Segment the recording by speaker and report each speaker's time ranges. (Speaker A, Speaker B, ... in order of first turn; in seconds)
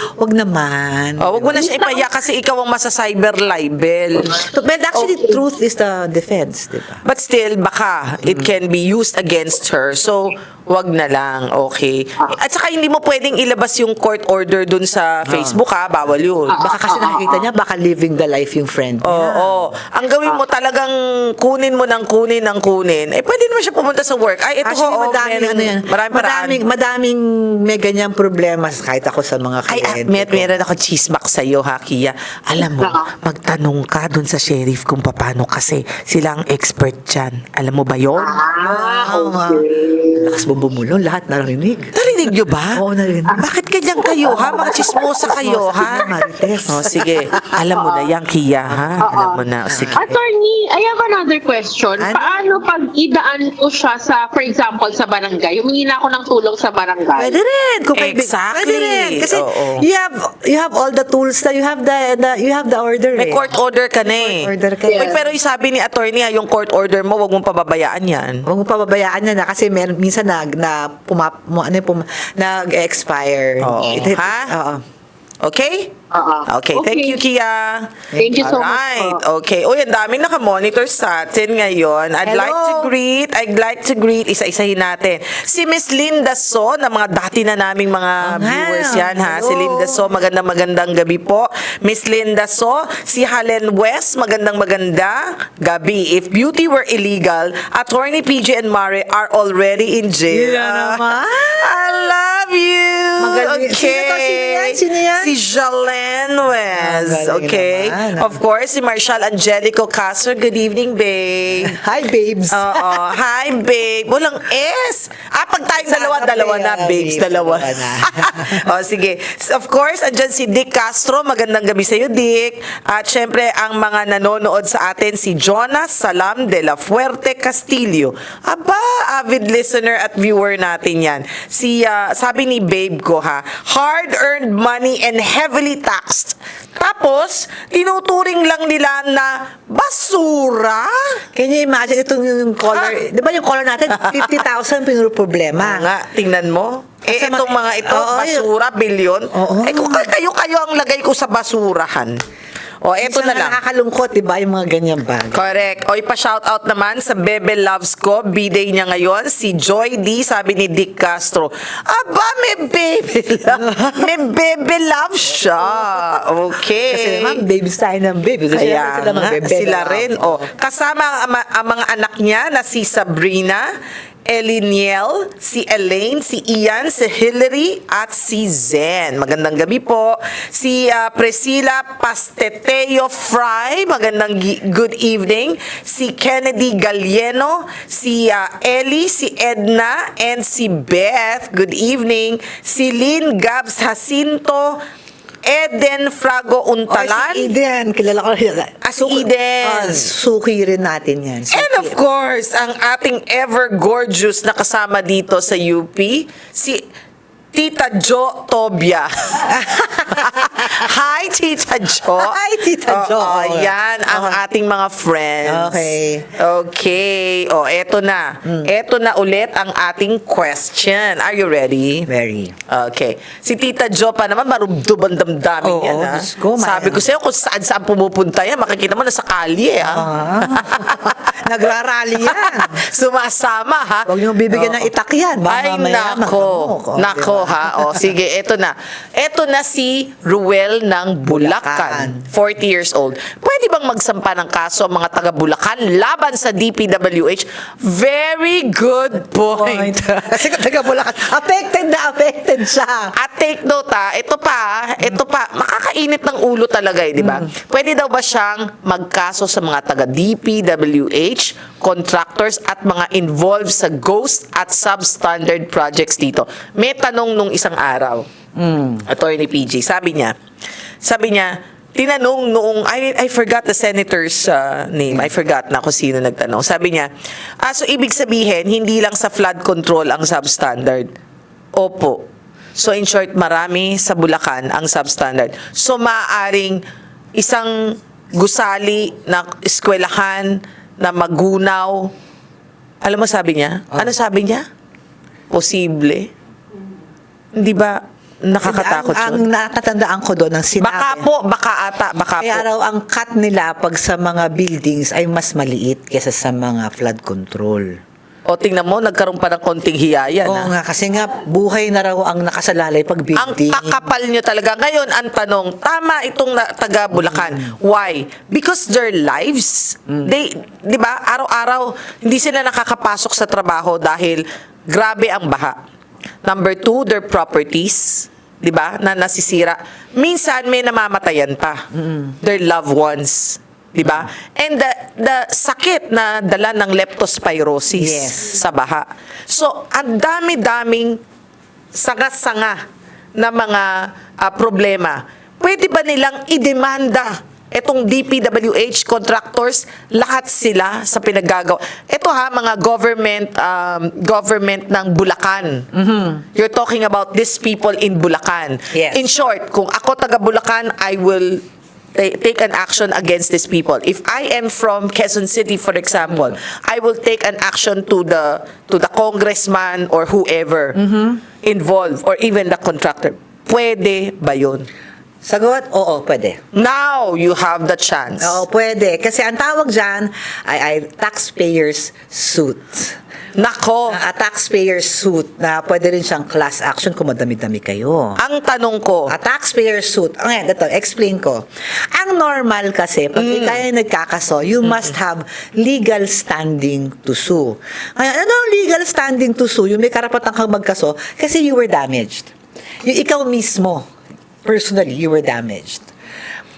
Speaker A: 0.2-1.7, 4.4-7.0, 8.2-8.5, 15.3-15.6, 16.5-19.7, 24.6-30.5, 38.6-39.6, 40.2-43.5, 44.3-47.0, 49.7-50.2, 52.0-52.4, 57.2-63.4, 64.1-65.3, 68.5-74.8, 78.1-78.5, 82.2-82.9, 88.2-90.1, 100.3-101.7, 103.2-105.3, 106.8-108.4, 111.6-113.1, 115.8-118.7, 141.3-145.9, 147.1-148.5, 149.3-150.1, 153.0-155.4, 163.5-164.1, 165.6-166.2, 166.9-170.5, 196.9-202.0, 209.4-210.9, 212.1-214.4, 215.5-216.3, 218.4-218.7, 222.1-222.6, 225.6-227.0, 229.8-232.8, 234.1-238.1, 241.3-242.2, 249.4-253.1, 257.2-257.5, 268.6-269.1, 298.6-301.3, 302.4-308.0, 310.4-314.1, 317.1-317.7, 331.9-332.4, 337.9-338.5, 355.9-356.4, 358.9-359.2, 366.3-366.5, 370.9-371.4, 375.4-376.6, 378.4-383.2, 384.1-388.4, 389.3-402.5, 403.0-404.1, 404.6-406.1
Speaker B: 1.2-4.4, 7.0-16.6, 19.0-26.6, 29.7-38.4, 42.0-46.0, 46.7-50.0, 58.0-59.8, 63.2-68.5, 73.6-74.5, 75.4-75.9, 76.5-111.8, 112.5-141.2, 143.9-144.4, 145.6-152.2, 152.8-153.6, 155.3-167.4, 168.5-173.7, 174.3-194.8, 195.4-197.5, 199.0-200.1, 201.5-206.8, 207.5-209.6, 210.1-222.1, 222.7-231.4, 232.2-234.9, 235.5-250.4, 253.1-268.3, 269.1-270.3, 271.0-277.1, 277.6-281.1, 281.8-282.2, 282.8-286.8, 287.4-292.1, 293.0-294.6, 295.5-296.3, 297.5-299.4, 300.8-302.6, 308.5-310.7, 313.4-325.8, 326.4-331.9, 332.4-341.2, 341.9-342.8, 343.4-355.9, 356.6-361.6, 362.1-371.0, 371.6-374.9, 376.7-378.6, 383.6-384.2, 388.4-389.3, 393.4-393.8, 394.8-395.1
Speaker C: 1.6-2.1, 16.5-17.4, 32.8-33.1, 38.2-40.5, 44.0-45.3, 45.8-46.1, 47.7-48.1, 49.0-57.4, 64.9-65.2, 76.1-77.2, 78.2-79.2